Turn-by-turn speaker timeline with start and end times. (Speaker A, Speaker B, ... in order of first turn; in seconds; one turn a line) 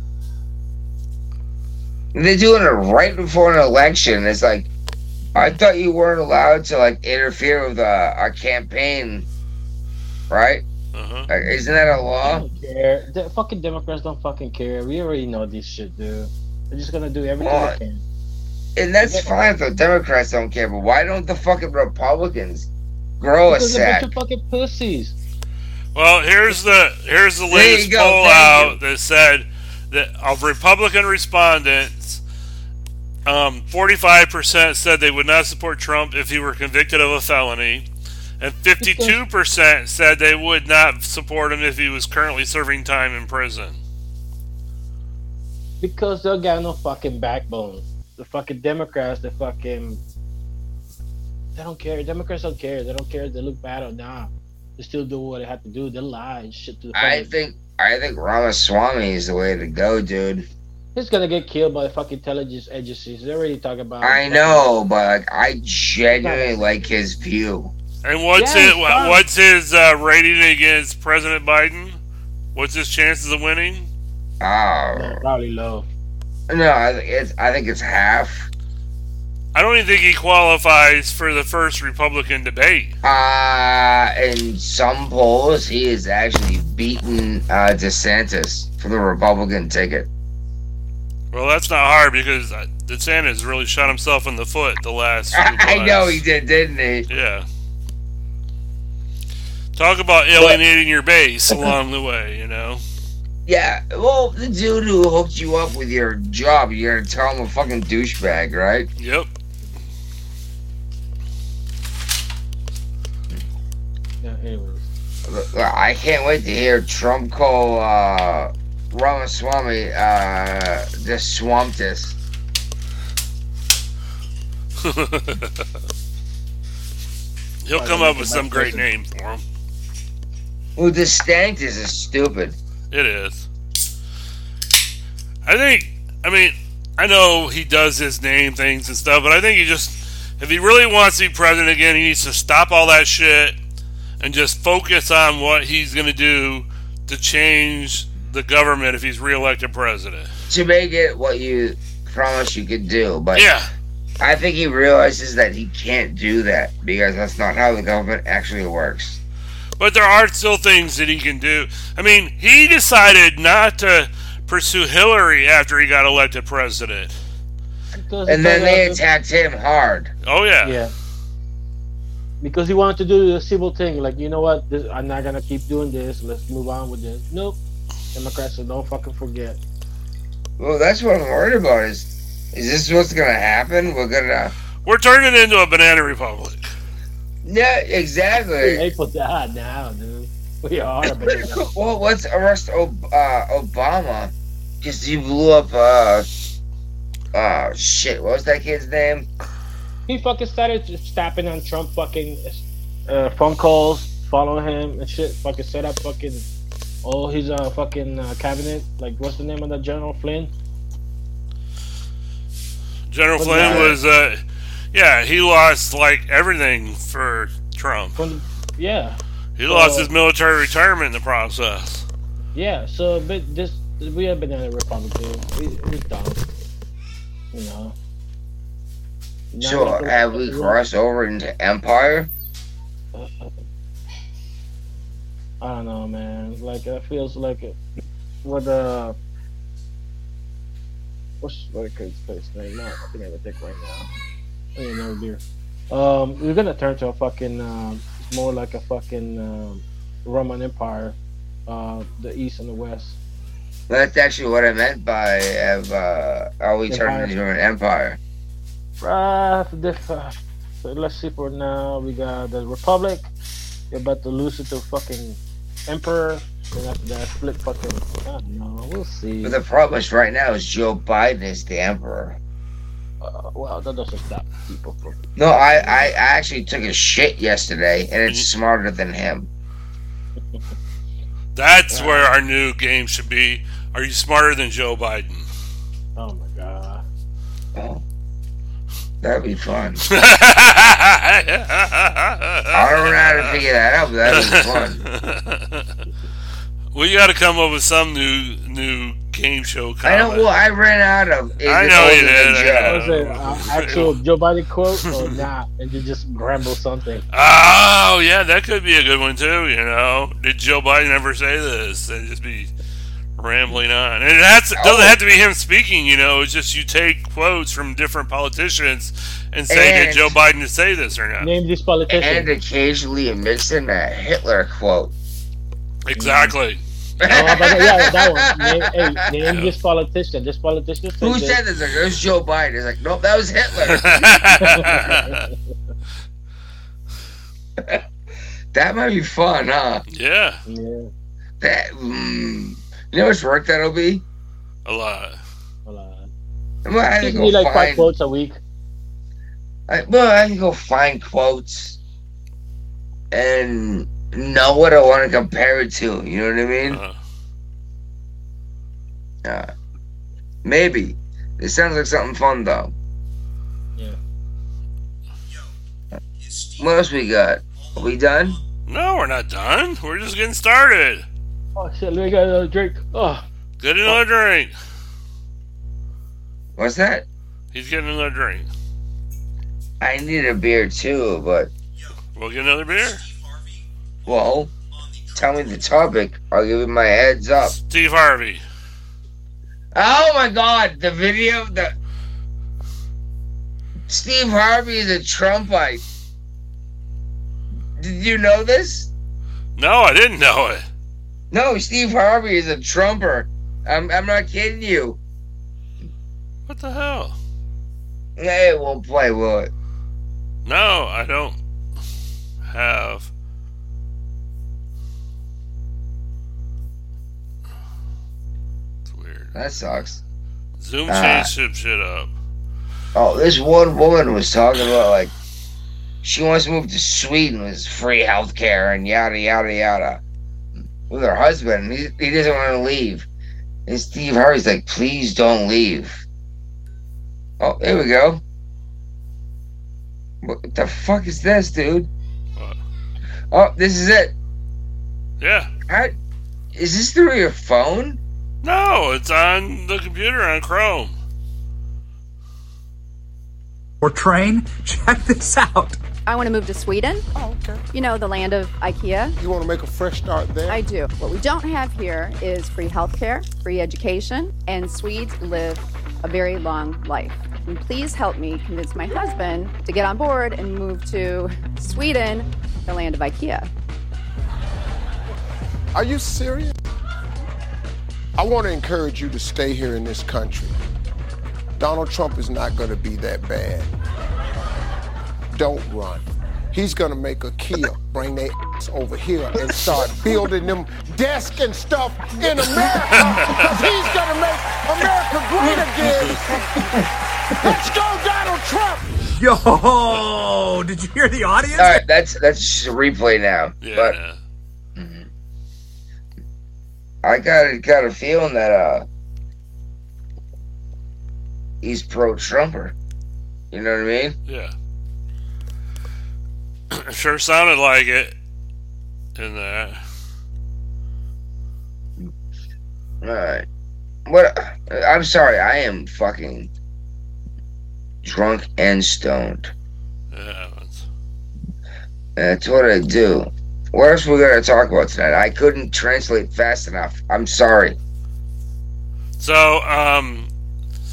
Speaker A: 2.1-4.7
Speaker A: 5.3-9.3
Speaker A: 10.3-10.6
Speaker B: 10.9-11.3
Speaker A: 11.3-12.4
Speaker C: 12.2-18.0
Speaker A: 17.4-17.8
Speaker A: 18.8-22.7
Speaker C: 19.0-19.3
Speaker A: 23.2-24.1
Speaker C: 23.5-25.1
Speaker B: 25.9-32.2
Speaker A: 27.5-28.8
Speaker B: 33.3-37.9
Speaker B: 38.4-43.8
Speaker C: 38.8-39.2
Speaker C: 45.8-50.0
Speaker C: 51.5-57.3
Speaker A: 56.9-60.5
Speaker C: 61.0-64.8
Speaker A: 64.0-67.7
Speaker C: 66.1-66.9
Speaker B: 68.0-72.0
Speaker C: 68.4-69.2
Speaker B: 72.5-73.9
Speaker A: 74.4-75.2
Speaker C: 74.9-75.9
Speaker A: 76.5-78.5
Speaker B: 79.5-82.9
Speaker A: 83.0-90.1
Speaker B: 91.3-96.2
Speaker A: 95.3-97.1
Speaker B: 97.1-97.5
Speaker B: 99.7-102.8
Speaker A: 103.5-108.9
Speaker B: 109.0-109.3
Speaker C: 114.2-114.9
Speaker A: 115.3-122.2
Speaker B: 124.8-125.7
Speaker B: 127.6-129.4
Speaker C: 127.8-128.9
Speaker A: 130.8-132.6
Speaker B: 132.9-133.4
Speaker B: 135.4-143.6
Speaker B: 144.2-150.3
Speaker A: 150.5-153.5
Speaker B: 153.3-153.7
Speaker A: 154.2-159.2
Speaker B: 159.8-167.1
Speaker C: 167.9-169.0
Speaker A: 168.3-170.1
Speaker B: 170.2-170.8
Speaker C: 170.6-170.9
Speaker C: 172.4-177.6
Speaker C: 178.1-179.6
Speaker A: 180.6-184.5
Speaker B: 184.8-186.7
Speaker A: 187.4-188.8
Speaker C: 188.6-191.7
Speaker A: 191.2-196.3
Speaker A: 197.3-199.3
Speaker C: 200.1-206.4
Speaker C: 207.0-210.5
Speaker B: 213.1-214.4
Speaker C: 213.4-213.9
Speaker A: 213.6-213.9
Speaker B: 214.9-218.2
Speaker C: 218.2-220.1
Speaker B: 219.6-222.1
Speaker C: 222.6-226.4
Speaker C: 227.5-227.9
Speaker C: 229.5-230.8
Speaker A: 229.6-232.3
Speaker C: 233.1-233.6
Speaker C: 235.6-237.8
Speaker C: 238.4-239.1
Speaker C: 241.4-244.1
Speaker C: 244.8-251.2
Speaker C: 251.7-253.2
Speaker A: 253.9-258.2
Speaker C: 256.9-257.3
Speaker C: 259.0-263.3
Speaker C: 263.9-269.6
Speaker A: 269.4-272.4
Speaker C: 273.2-276.1
Speaker A: 275.4-279.5
Speaker B: 281.6-285.4
Speaker C: 281.9-282.3
Speaker C: 286.2-287.0
Speaker A: 287.7-288.0
Speaker A: 289.2-290.0
Speaker B: 290.1-293.6
Speaker A: 292.7-295.0
Speaker B: 294.2-295.9
Speaker B: 296.9-300.5
Speaker A: 300.0-303.0
Speaker B: 301.6-304.2
Speaker C: 302.9-307.2
Speaker B: 305.2-305.4
Speaker B: 307.3-312.7
Speaker B: 313.4-321.5
Speaker A: 314.8-315.2
Speaker A: 319.7-320.4
Speaker C: 321.4-322.5
Speaker A: 322.1-325.1
Speaker B: 326.1-326.8
Speaker C: 326.2-326.6
Speaker A: 327.2-329.2
Speaker C: 327.3-331.6
Speaker A: 331.2-334.5
Speaker B: 333.8-335.4
Speaker C: 334.6-335.5
Speaker A: 337.8-338.0
Speaker A: 338.7-340.0
Speaker B: 340.1-340.6
Speaker C: 340.7-341.1
Speaker A: 341.6-344.2
Speaker B: 344.9-345.4
Speaker C: 345.9-346.3
Speaker A: 346.9-348.1
Speaker C: 347.2-348.6
Speaker A: 349.9-352.0
Speaker A: 353.3-357.0
Speaker B: 356.9-357.2
Speaker A: 359.4-359.7
Speaker A: 360.6-362.9
Speaker A: 366.8-368.6
Speaker B: 368.9-371.3
Speaker C: 371.8-373.4
Speaker B: 373.8-374.7
Speaker A: 376.8-377.2
Speaker B: 377.7-378.7
Speaker A: 380.0-381.7
Speaker B: 382.4-383.2
Speaker A: 384.3-384.7
Speaker A: 385.3-387.8
Speaker B: 387.8-388.6
Speaker A: 389.9-391.9
Speaker A: 394.1-396.0
Speaker A: 398.0-399.1
Speaker B: 399.8-400.9
Speaker A: 401.5-405.2
Speaker B: 406.7-407.4
Speaker A: 408.4-409.7
Speaker B: 410.7-411.6
Speaker B: 412.6-413.3
Speaker B: 419.1-419.5
Speaker A: 419.5-420.2
Speaker B: 420.8-422.3
Speaker A: 421.1-421.5
Speaker A: 423.1-425.3
Speaker A: 426.2-430.2
Speaker A: 431.1-433.3
Speaker A: 433.9-436.2
Speaker A: 437.6-438.4
Speaker A: 440.4-442.1
Speaker A: 443.5-444.3
Speaker B: 445.4-445.7
Speaker A: 445.9-446.2
Speaker A: 446.7-448.2
Speaker B: 448.6-451.1
Speaker D: 454.0-456.0
Speaker E: 456.3-457.2
Speaker E: 457.9-459.4
Speaker F: 459.4-460.8
Speaker E: 460.7-473.7
Speaker F: 475.9-476.7
Speaker F: 478.4-480.8
Speaker F: 481.8-483.9
Speaker F: 485.5-497.0
Speaker B: 493.1-493.8
Speaker F: 497.6-499.1
Speaker D: 499.3-502.0
Speaker A: 501.8-504.2
Speaker B: 503.8-504.4
Speaker A: 505.0-505.3
Speaker A: 507.2-509.1
Speaker A: 511.8-513.0
Speaker A: 513.7-514.4
Speaker B: 514.5-514.7
Speaker B: 516.9-518.3
Speaker B: 519.4-520.0
Speaker A: 523.2-523.6
Speaker A: 524.3-526.7
Speaker A: 528.2-529.7
Speaker B: 530.3-531.0
Speaker A: 532.4-538.0
Speaker B: 539.4-540.5